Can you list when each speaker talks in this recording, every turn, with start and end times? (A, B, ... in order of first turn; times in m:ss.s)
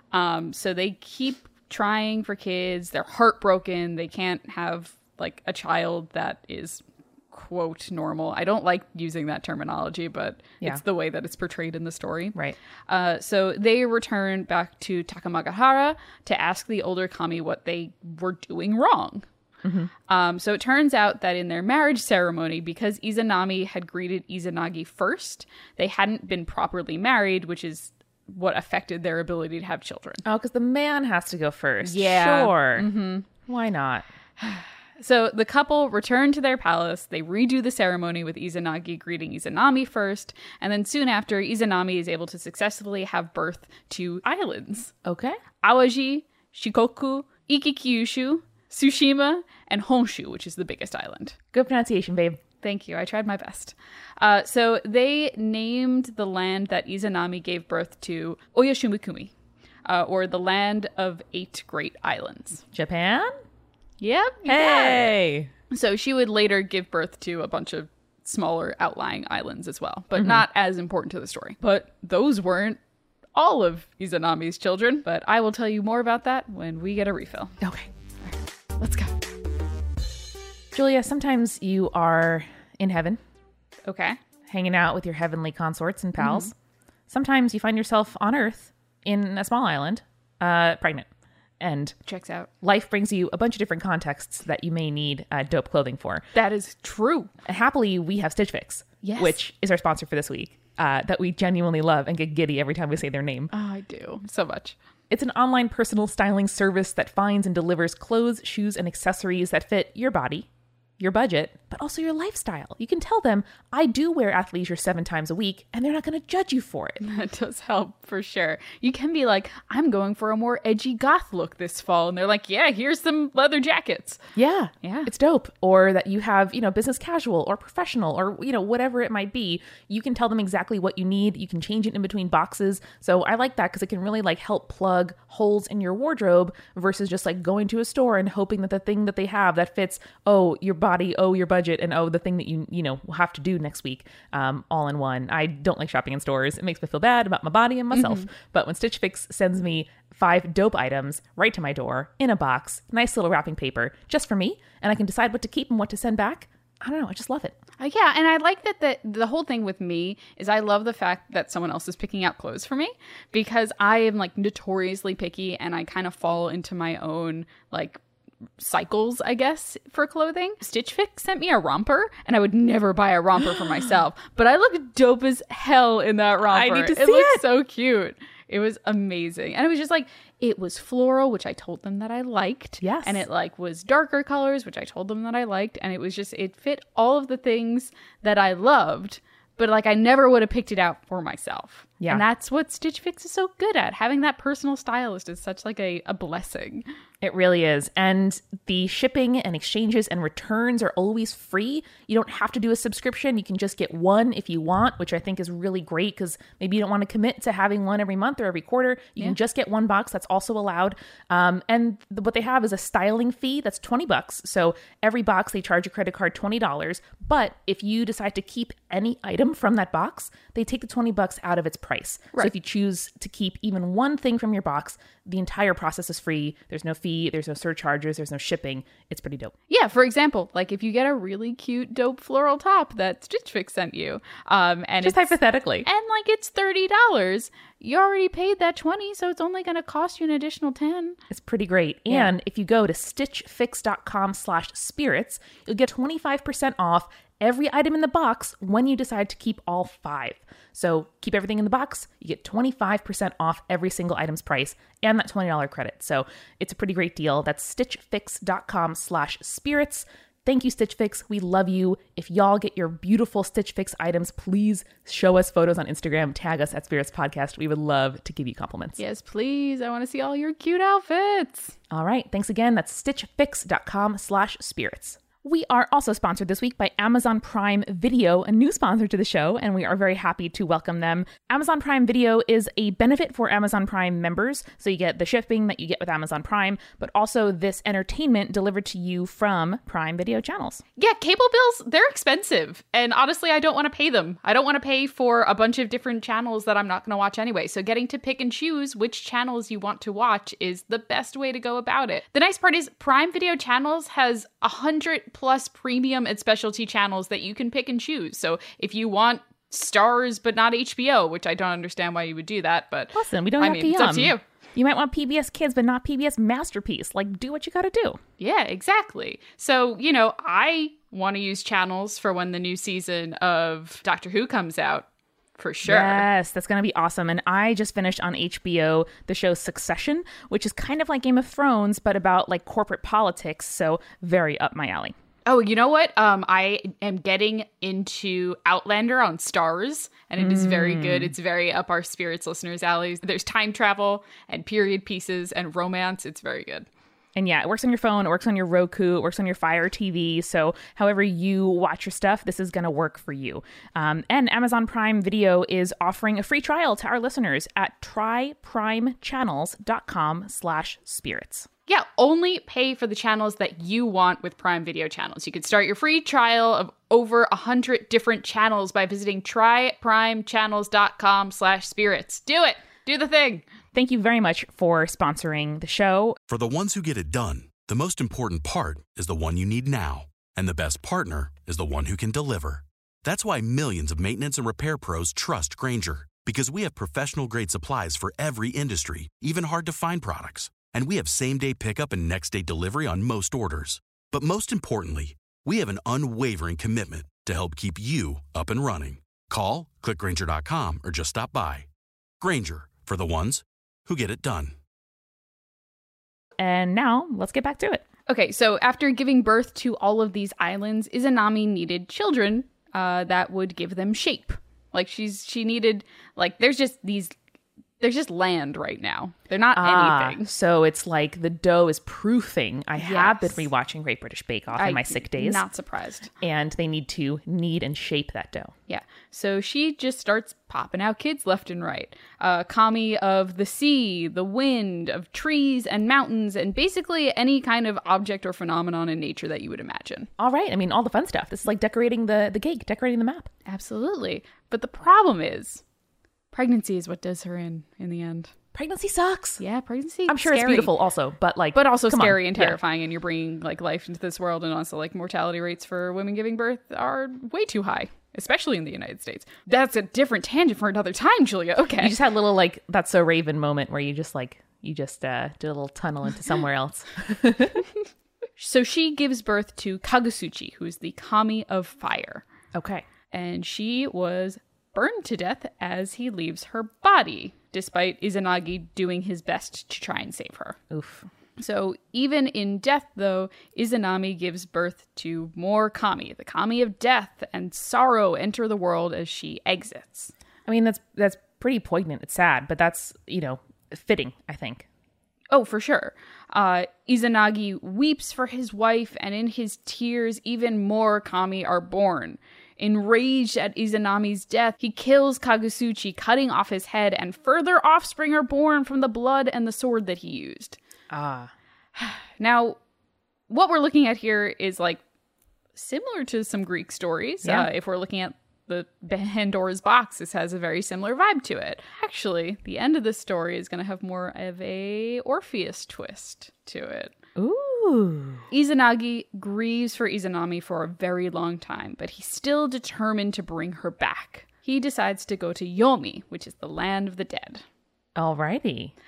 0:00.1-0:12.4 A
0:12.9-0:19.3 A
0:19.6-0:19.9 B
0:20.1-0:30.2 A
0:30.2-0:32.9 B
0:31.8-0:33.2 A
0:33.4-0:34.0 B
0:34.4-0:44.9 A
0:45.0-0:45.4 B
0:45.6-0:51.4 A
0:51.5-0:52.4 B
0:52.6-0:59.3 A
0:59.8-1:02.6 A
1:02.7-1:03.4 B
1:04.0-1:05.1 A
1:04.4-1:05.5 B
1:05.7-1:12.8 A
1:13.3-1:17.6 A
1:17.6-1:17.9 B
1:18.2-1:19.3 A
1:20.7-1:23.2 B
1:23.8-1:24.2 A
1:24.5-1:26.5 B
1:26.2-1:26.5 A
1:27.1-1:31.1 B
1:31.6-1:31.9 B
1:32.0-1:32.5 A
1:32.6-1:36.2 B
1:36.3-1:37.3 A
1:37.4-1:43.5 B
1:39.0-1:39.4 A
1:43.5-1:44.8 A
1:45.1-1:50.5 B
1:51.0-1:57.0 B
1:57.0-2:04.2 A
2:04.3-2:37.6 B
2:04.8-2:05.1 A
2:27.9-2:28.3 A
2:37.8-2:48.0 A
2:48.6-3:16.8 A
2:56.4-2:57.4 B
3:02.8-3:03.2 B
3:17.2-3:49.5 B
3:49.7-4:01.2 A
3:55.0-3:55.9 B
4:01.3-4:29.0 B
4:29.0-4:31.8 A
4:31.9-4:50.8 B
4:51.0-5:14.4 A
5:13.1-5:18.2 B
5:18.4-5:26.3 A
5:25.8-5:35.1 B
5:35.4-5:46.9 A
5:40.4-5:41.3 B
5:47.3-6:01.7 B
6:01.9-6:13.6 A
6:13.9-6:16.4 B
6:16.5-6:41.9 C
6:42.4-6:44.7 C
6:46.6-6:48.0 B
6:48.3-6:57.4 A
6:58.0-7:00.5 A
6:59.7-7:05.6 B
7:03.0-7:03.7 A
7:04.7-7:06.3 A
7:06.4-7:08.7 B
7:08.9-7:20.3 A
7:20.4-7:23.5 B
7:23.6-7:25.8 A
7:26.5-7:28.5 A
7:28.7-7:29.6 B
7:29.6-7:30.9 A
7:30.3-7:32.8 B
7:31.7-7:42.2 A
7:42.0-7:47.8 B
7:48.6-7:52.4 A
7:52.7-7:53.0 B
7:53.3-8:00.8 A
8:00.9-8:01.3 B
8:01.6-8:10.3 A
8:10.6-8:14.8 B
8:15.5-8:30.8 A
8:31.1-8:31.5 B
8:32.0-8:32.8 A
8:33.5-8:35.0 A
8:35.7-8:47.1 A
8:37.4-8:37.7 B
8:47.4-8:48.4 B
8:48.5-8:57.6 A
8:58.2-8:58.9 B